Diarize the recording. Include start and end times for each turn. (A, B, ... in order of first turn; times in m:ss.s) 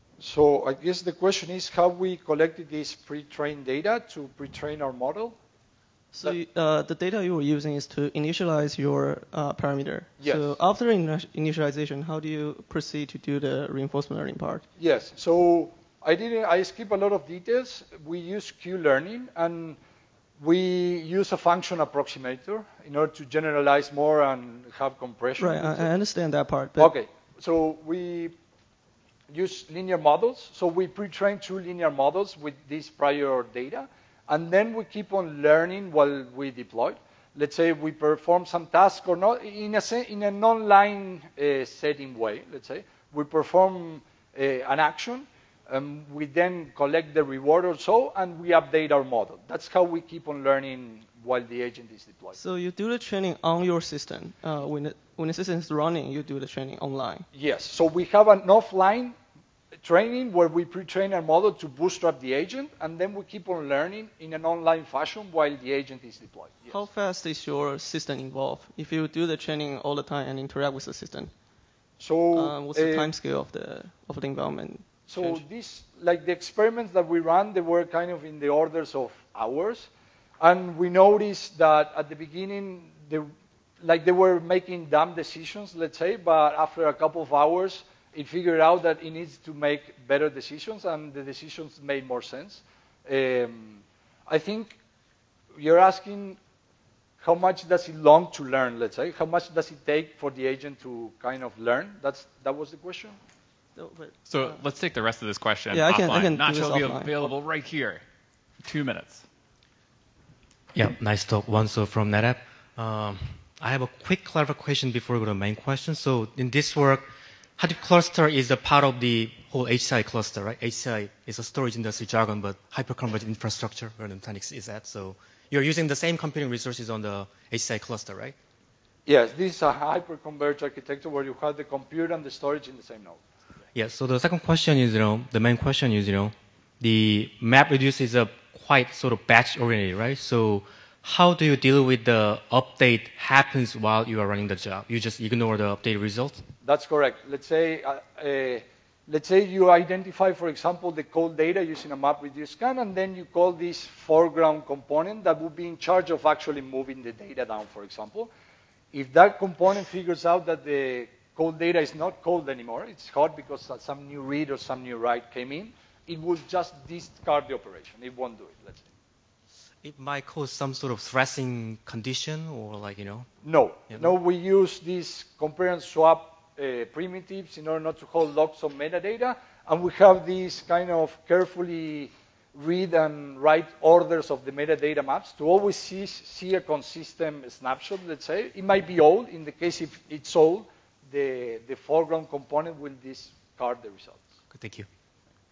0:00.2-0:05.4 A
0:06.1-0:14.6 B
0:10.2-0:10.6 A
0:14.8-0:19.8 A
0:20.4-0:25.9 A
0:25.4-0:26.9 B
0:26.8-0:28.3 A
0:29.3-0:52.4 A
0:52.3-0:57.3 B
0:57.3-0:59.1 A
0:59.8-1:06.8 A
1:06.7-1:11.3 B
1:12.0-1:13.1 A
1:12.3-1:15.4 B
1:15.1-1:19.9 A
1:20.4-1:23.3 A
1:23.8-1:34.8 A
1:35.5-1:36.4 A
1:37.2-1:43.2 A
1:43.7-1:44.6 B
1:44.2-1:48.0 C
1:45.7-1:47.3 B
1:48.6-1:49.2 C
1:50.7-1:57.0 D
1:57.6-2:08.4 D
2:09.0-2:13.2 A
2:13.7-2:26.4 D
2:26.6-2:38.3 A
2:38.9-2:48.9 A
2:49.8-2:53.3 D
2:53.4-3:14.2 A
3:14.5-3:14.9 D